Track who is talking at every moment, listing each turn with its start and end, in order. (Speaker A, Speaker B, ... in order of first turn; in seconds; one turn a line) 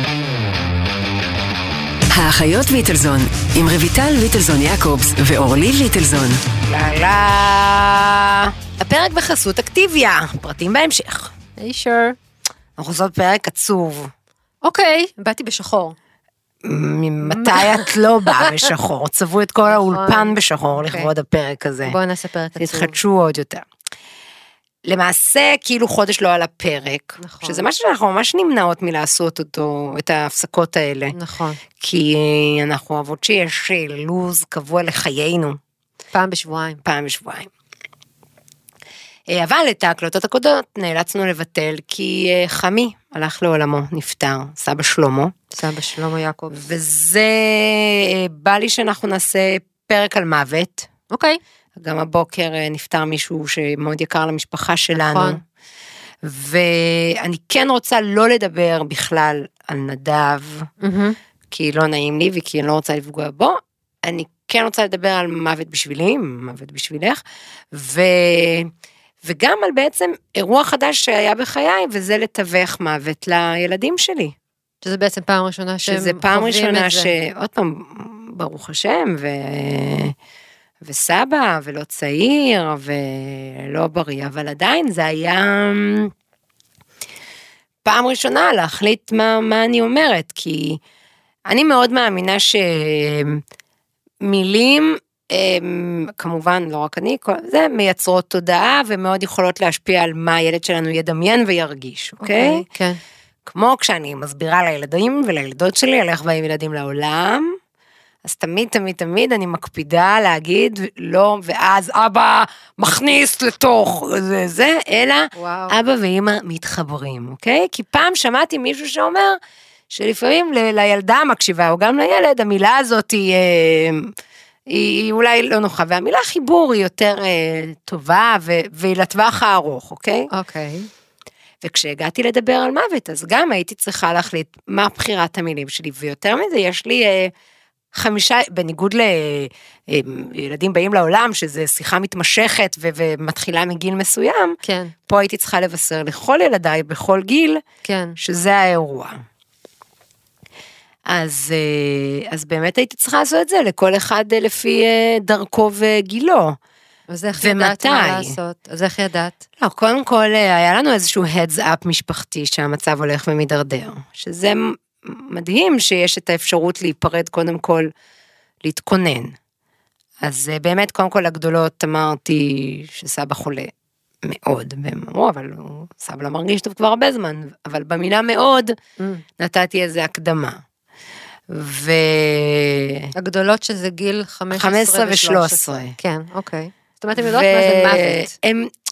Speaker A: 2.1-6.4
Speaker B: 6.7-11.3
Speaker C: 11.6-12.2
Speaker B: 12.8-14.1
Speaker C: 14.7-16.0
Speaker B: 16.6-22.0
Speaker C: 17.3-18.6
Speaker C: 19.7-21.1
Speaker C: 21.9-23.0
Speaker B: 22.6-23.7
Speaker B: 24.9-31.2
Speaker C: 27.2-27.6
Speaker C: 31.1-31.6
Speaker B: 31.8-35.6
Speaker C: 36.1-36.8
Speaker B: 36.8-37.5
Speaker B: 39.3-45.4
Speaker C: 45.5-46.6
Speaker B: 46.5-50.9
Speaker C: 51.1-51.4
Speaker B: 51.8-55.4
Speaker C: 55.0-55.4
Speaker B: 56.2-60.7
Speaker C: 60.8-61.2
Speaker B: 61.5-68.7
Speaker B: 69.2-74.3
Speaker C: 74.8-77.1
Speaker B: 75.9-80.2
Speaker B: 80.8-86.1
Speaker B: 87.8-90.8
Speaker B: 91.5-93.4
Speaker B: 94.2-102.7
Speaker C: 102.2-103.0
Speaker B: 103.5-107.6
Speaker B: 108.2-119.4
Speaker C: 115.3-115.8
Speaker B: 119.9-124.1
Speaker B: 124.7-130.3
Speaker C: 130.3-130.9
Speaker B: 131.6-137.3
Speaker B: 137.9-144.6
Speaker C: 144.7-144.9
Speaker B: 145.1-147.6
Speaker C: 147.8-148.2
Speaker B: 148.2-149.2
Speaker B: 151.1-156.6
Speaker C: 157.1-159.4
Speaker B: 157.4-158.3
Speaker B: 159.6-167.9
Speaker B: 168.6-169.4
Speaker B: 170.2-173.7
Speaker B: 174.2-178.8
Speaker B: 179.4-180.6
Speaker B: 181.5-183.1
Speaker C: 183.2-188.3
Speaker B: 184.5-186.0
Speaker B: 187.2-188.7